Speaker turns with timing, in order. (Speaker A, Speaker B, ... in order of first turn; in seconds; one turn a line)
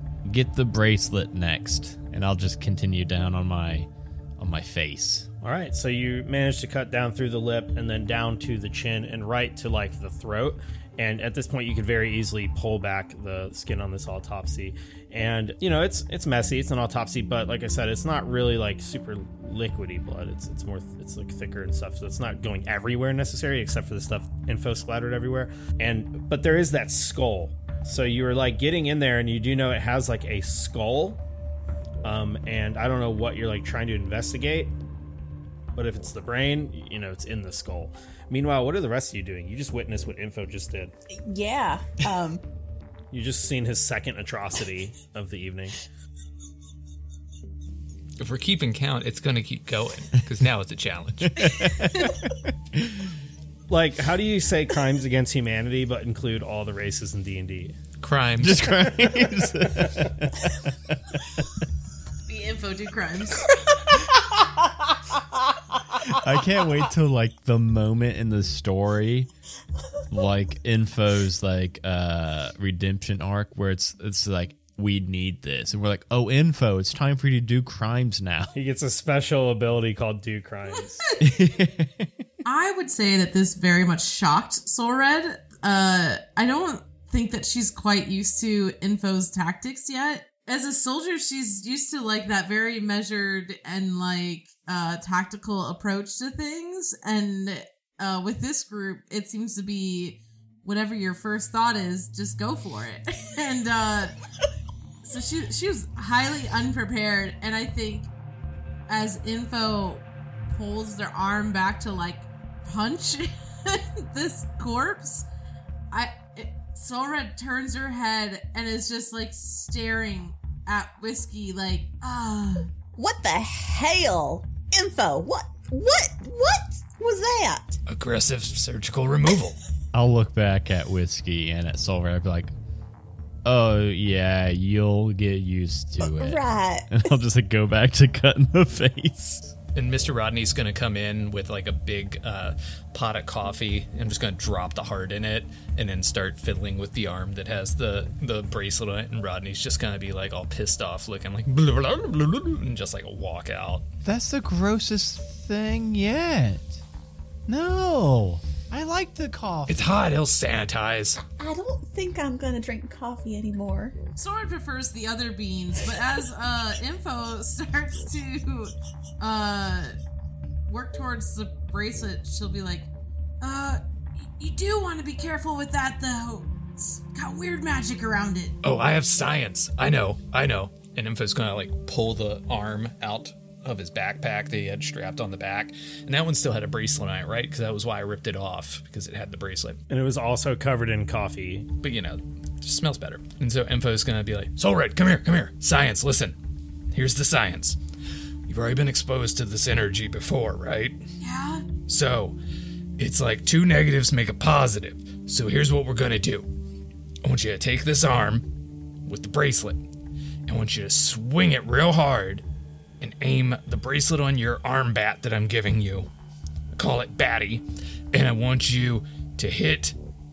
Speaker A: 0.2-5.3
Speaker B: 5.4-31.2
Speaker B: 32.0-34.7
Speaker B: 35.7-40.9
Speaker C: 41.2-42.4
Speaker B: 43.1-45.8
Speaker D: 48.2-51.5
Speaker A: 51.2-53.1
Speaker B: 53.7-57.8
Speaker D: 58.0-58.9
Speaker A: 58.4-61.5
Speaker E: 62.3-63.5
Speaker A: 66.0-69.3
Speaker A: 70.1-78.5
Speaker B: 78.5-81.0
Speaker A: 81.2-82.1
Speaker E: 82.4-104.2
Speaker E: 105.0-108.1
Speaker E: 108.9-115.3
Speaker E: 115.9-122.7
Speaker C: 123.0-127.8
Speaker D: 127.9-129.6
Speaker A: 129.9-132.5
Speaker A: 133.4-139.5
Speaker C: 136.0-136.9
Speaker D: 139.7-153.8
Speaker A: 154.0-156.8
Speaker A: 157.5-159.9
Speaker D: 159.7-161.2
Speaker C: 161.4-163.9
Speaker E: 164.2-169.9
Speaker E: 170.7-172.9
Speaker E: 173.4-178.5
Speaker D: 178.6-189.8
Speaker B: 189.9-191.7
Speaker D: 191.8-196.3
Speaker D: 196.9-197.8
Speaker D: 198.5-201.0
Speaker E: 201.2-201.7
Speaker D: 201.9-202.4
Speaker D: 203.0-206.5
Speaker D: 207.2-208.4
Speaker D: 209.1-209.8
Speaker D: 210.5-212.4
Speaker D: 213.0-216.1
Speaker D: 216.7-219.9